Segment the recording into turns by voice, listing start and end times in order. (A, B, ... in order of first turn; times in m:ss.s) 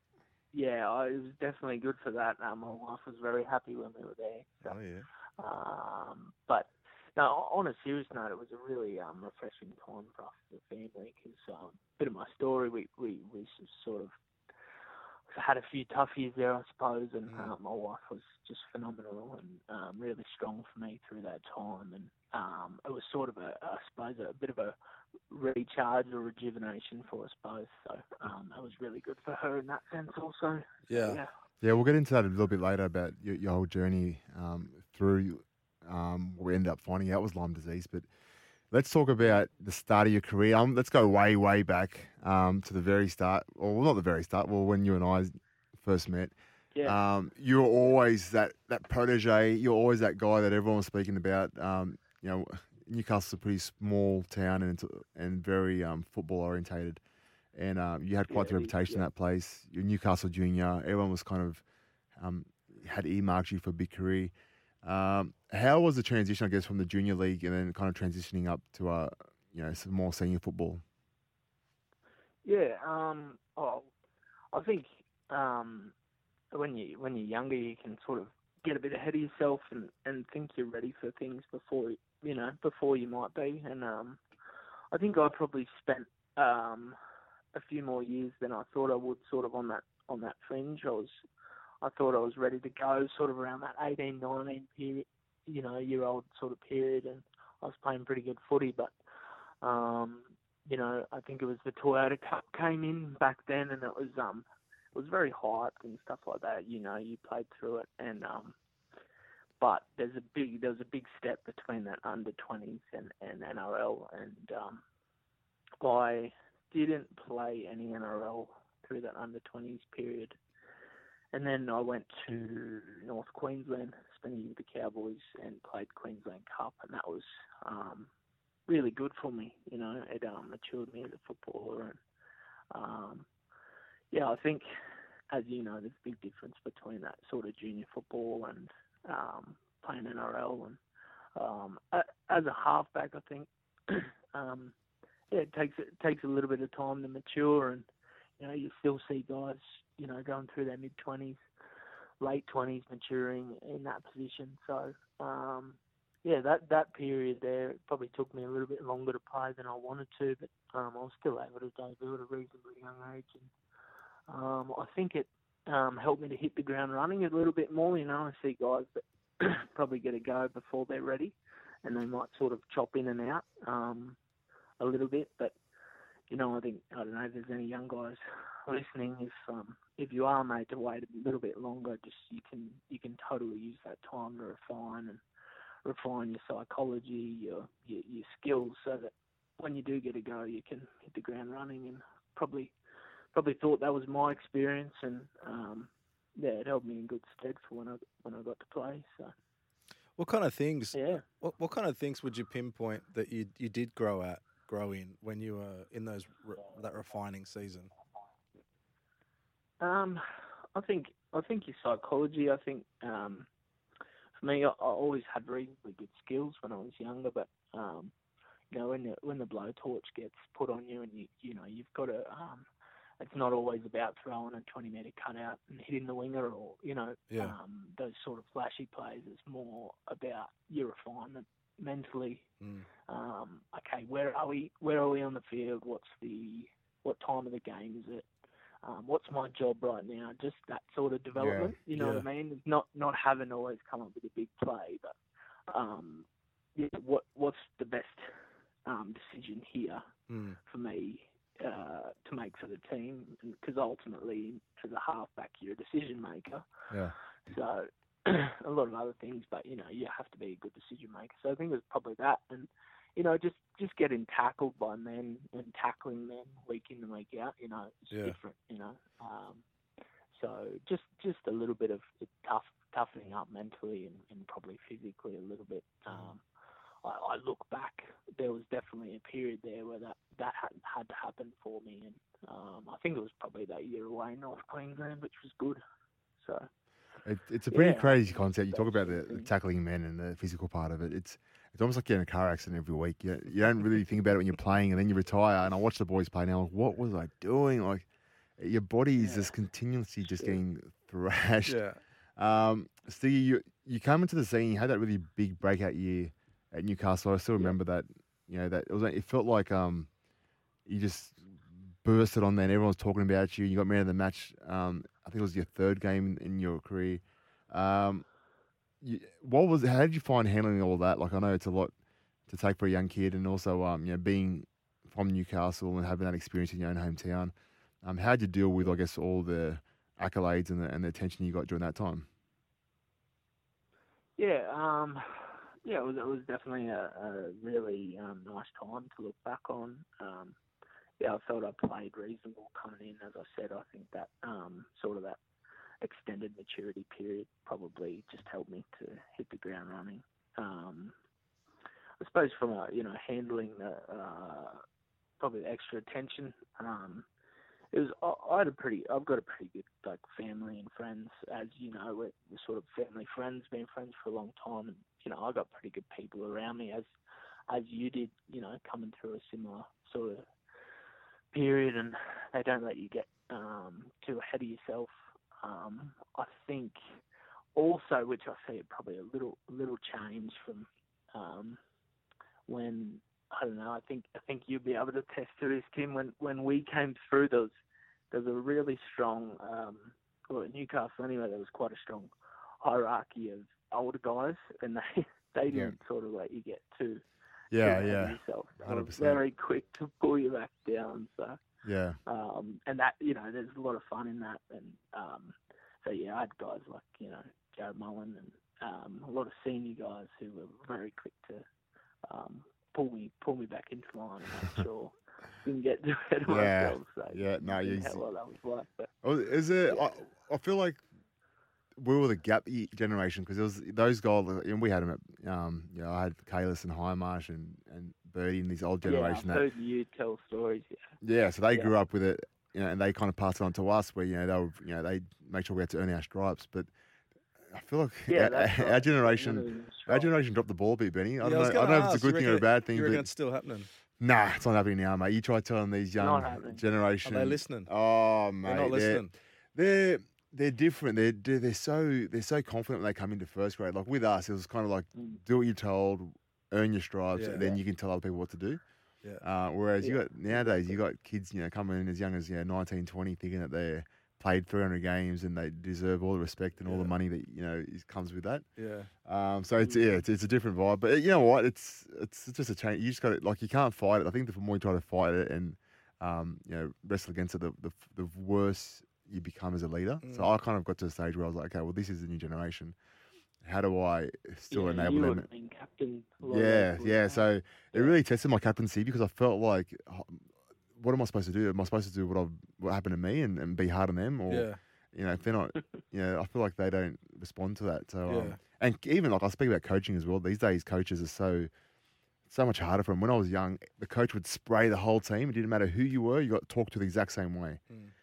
0:00.5-0:04.8 A
0:04.6-0:05.1 B
0:05.4-0:14.1 A
0:15.3-0:24.8 A
0:17.3-0:17.5 B
0:25.3-0:31.3 A
0:30.9-0:31.2 B
0:31.6-0:38.1 C
0:38.7-0:46.3 C
0:46.8-0:57.0 C
0:57.5-1:01.6 C
0:58.3-0:59.1 A
1:02.2-1:10.8 C
1:12.4-1:13.9 A
1:14.5-1:16.0 A
1:16.5-1:24.2 A
1:24.9-1:27.0 A
1:27.5-1:31.2 A
1:31.8-1:38.9 A
1:39.6-1:48.6 A
1:49.6-1:54.8 A
1:55.8-2:00.4 A
2:01.3-2:08.1 A
2:08.7-2:12.0 A
2:12.7-2:13.3 A
2:14.1-2:14.7 A
2:15.3-2:20.8 A
2:21.4-2:24.8 A
2:25.3-2:27.9 A
2:28.4-2:31.4 A
2:32.2-2:43.5 A
2:44.3-2:54.2 A
2:54.8-2:55.6 A
2:56.3-3:05.2 A
3:05.8-3:12.8 A
3:13.3-3:19.3 A
3:20.2-3:27.9 B
3:20.9-3:21.2 A
3:29.8-3:30.2 A
3:30.7-3:33.5 A
3:34.4-3:38.1 A
3:38.7-3:42.7 A
3:43.2-3:52.5 A
3:47.3-3:47.6 B
3:52.6-3:52.9 B
3:53.1-3:58.3 A
3:58.8-4:05.2 A
4:01.4-4:01.8 C
4:02.0-4:02.3 B
4:05.7-4:08.3 A
4:08.9-4:10.1 A
4:10.3-4:10.6 B
4:10.7-4:16.7 A
4:16.9-4:17.2 C
4:17.5-4:29.6 A
4:28.1-4:28.4 B
4:30.3-4:36.4 A
4:37.0-4:45.8 A
4:46.4-4:46.7 A
4:47.2-5:01.8 C
4:47.7-4:49.5 A
4:59.2-4:59.5 A
5:00.3-5:00.6 A
5:01.7-5:02.0 B
5:02.4-5:10.1 C
5:10.8-5:18.3 C
5:19.0-5:21.9 C
5:22.5-5:32.3 C
5:34.4-5:40.6 A
5:41.2-5:45.4 A
5:46.0-5:51.2 A
5:52.2-5:54.8 A
5:55.4-5:57.3 A
5:57.9-6:07.1 A
6:07.7-6:10.5 A
6:11.5-6:17.0 A
6:17.8-6:21.8 A
6:22.7-6:27.8 A
6:28.3-6:32.3 A
6:32.8-6:37.2 A
6:35.7-6:36.0 C
6:37.7-6:39.4 C
6:37.8-6:41.6 A
6:41.8-6:42.2 C
6:42.3-6:51.6 A
6:52.3-6:59.1 A
6:56.5-6:58.2 C
6:59.2-7:01.0 C
6:59.9-7:00.1 A
7:02.0-7:09.6 C
7:09.0-7:11.1 A
7:11.2-7:16.9 C
7:17.7-7:23.3 C
7:18.3-7:20.3 A
7:21.4-7:23.9 B
7:24.2-7:38.8 C
7:26.2-7:26.8 A
7:27.2-7:27.9 B
7:28.6-7:29.3 B
7:35.2-7:35.4 A
7:37.4-7:37.6 B
7:37.6-7:37.8 A
7:39.4-7:48.7 C
7:40.0-7:41.0 A
7:46.8-7:47.1 B
7:48.8-7:49.1 B
7:49.2-8:03.0 C
7:49.8-7:50.2 A
8:00.2-8:00.5 B
8:03.6-8:05.5 C
8:04.7-8:08.2 A
8:06.4-8:21.7 C
8:14.5-8:14.8 B
8:18.3-8:18.6 B
8:22.5-8:27.8 C